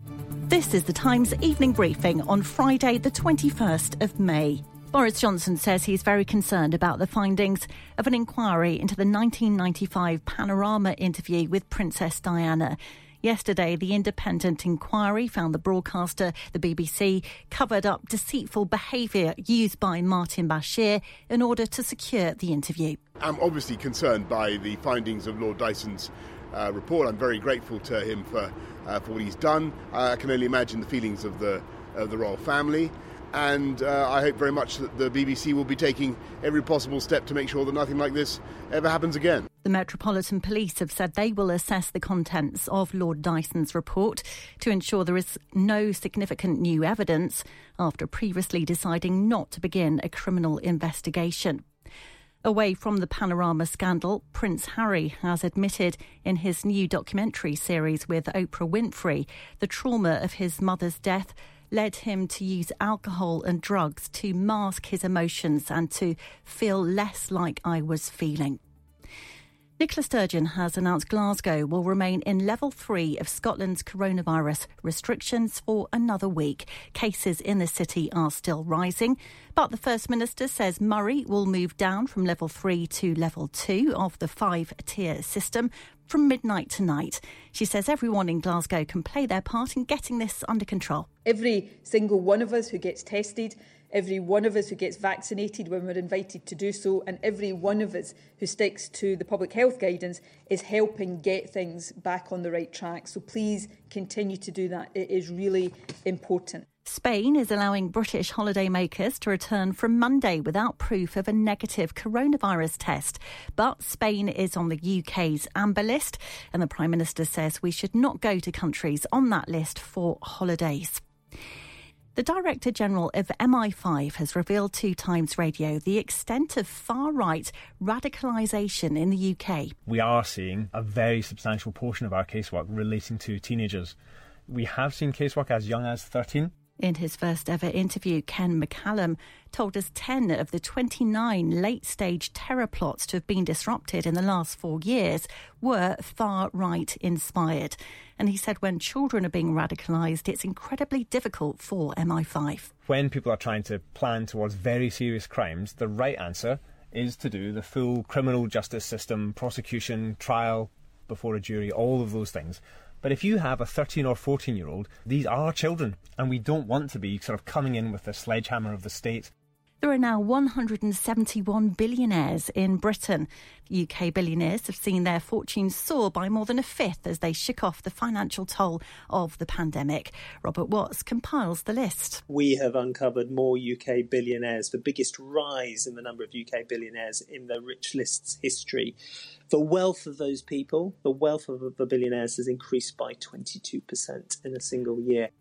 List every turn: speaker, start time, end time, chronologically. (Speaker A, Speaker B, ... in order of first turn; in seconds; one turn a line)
Speaker A: 0.5-23.0
Speaker B: 23.2-39.5
Speaker A: 39.6-51.6
Speaker A: 52.4-68.6
Speaker A: 69.8-91.1
Speaker C: 91.2-106.7
Speaker A: 106.8-121.0
Speaker A: 122.1-129.7
Speaker D: 129.9-133.9
Speaker D: 134.5-136.5
Speaker A: 136.8-152.7
Speaker D: 152.8-169.3
Speaker A: 169.8-182.2
Speaker E: 182.3-188.9
Speaker E: 189.5-195.3